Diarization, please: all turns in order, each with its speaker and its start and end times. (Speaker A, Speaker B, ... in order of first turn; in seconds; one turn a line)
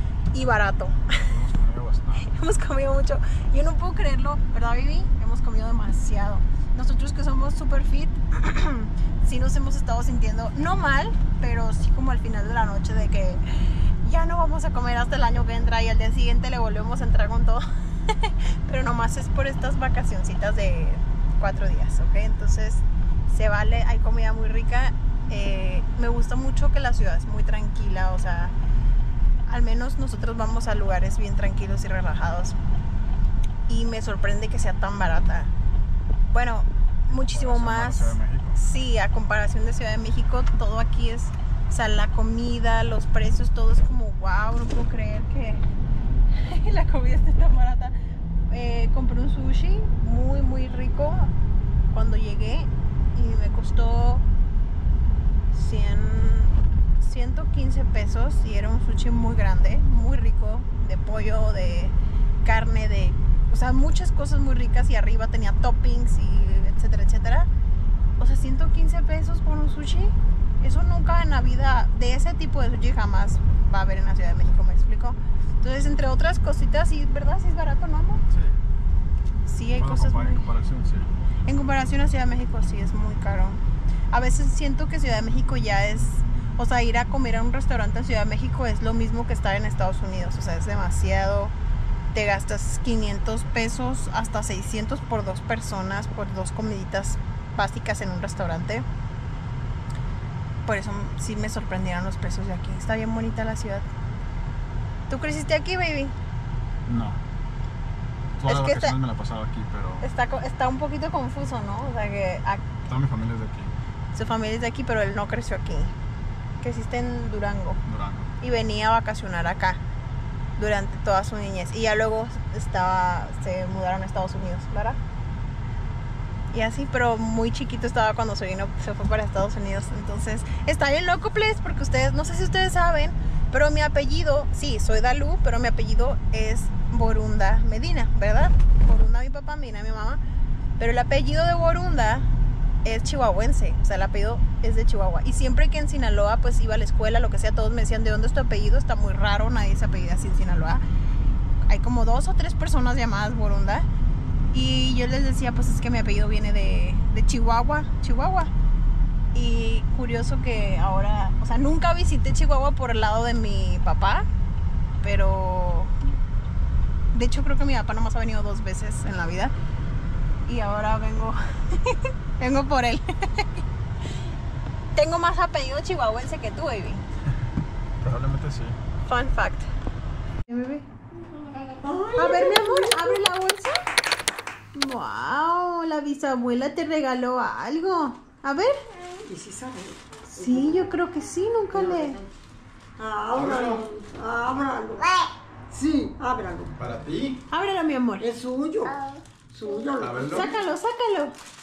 Speaker A: 0.3-1.2
Speaker B: 1.3-2.3
Speaker A: 2.2-13.4
Speaker A: 14.0-28.5
Speaker A: 29.5-32.6
Speaker A: 33.7-35.5
Speaker A: 36.3-45.6
Speaker B: 37.2-38.6
Speaker A: 46.3-47.9
Speaker A: 48.5-51.3
Speaker A: 51.9-54.2
Speaker A: 55.5-67.5
Speaker A: 68.2-78.2
Speaker B: 78.3-78.6
Speaker A: 79.5-80.5
Speaker B: 79.7-81.1
Speaker A: 81.5-91.5
Speaker A: 92.1-98.8
Speaker A: 100.7-103.8
Speaker A: 105.1-106.1
Speaker B: 106.8-107.2
Speaker B: 108.4-110.1
Speaker A: 108.5-109.0
Speaker A: 110.0-112.7
Speaker B: 112.8-113.7
Speaker A: 114.1-115.9
Speaker A: 116.6-117.8
Speaker B: 117.8-118.3
Speaker A: 118.4-119.8
Speaker A: 120.6-125.0
Speaker A: 126.5-140.2
Speaker A: 140.8-142.3
Speaker A: 142.8-150.8
Speaker A: 151.7-153.9
Speaker A: 154.5-158.5
Speaker A: 159.3-164.2
Speaker A: 165.0-165.9
Speaker A: 167.1-169.5
Speaker A: 170.4-173.6
Speaker A: 174.9-177.0
Speaker B: 178.0-178.8
Speaker A: 179.1-179.7
Speaker A: 180.5-180.8
Speaker C: 181.8-183.1
Speaker A: 182.1-183.8
Speaker A: 184.7-188.8
Speaker C: 189.2-190.9
Speaker A: 190.3-192.2
Speaker C: 191.7-192.2
Speaker C: 193.0-195.1
Speaker B: 193.3-193.8
Speaker C: 195.7-196.7
Speaker B: 196.8-197.4
Speaker A: 197.5-198.2
Speaker C: 198.2-199.0
Speaker C: 199.5-200.5
Speaker B: 200.0-200.5
Speaker A: 200.3-201.3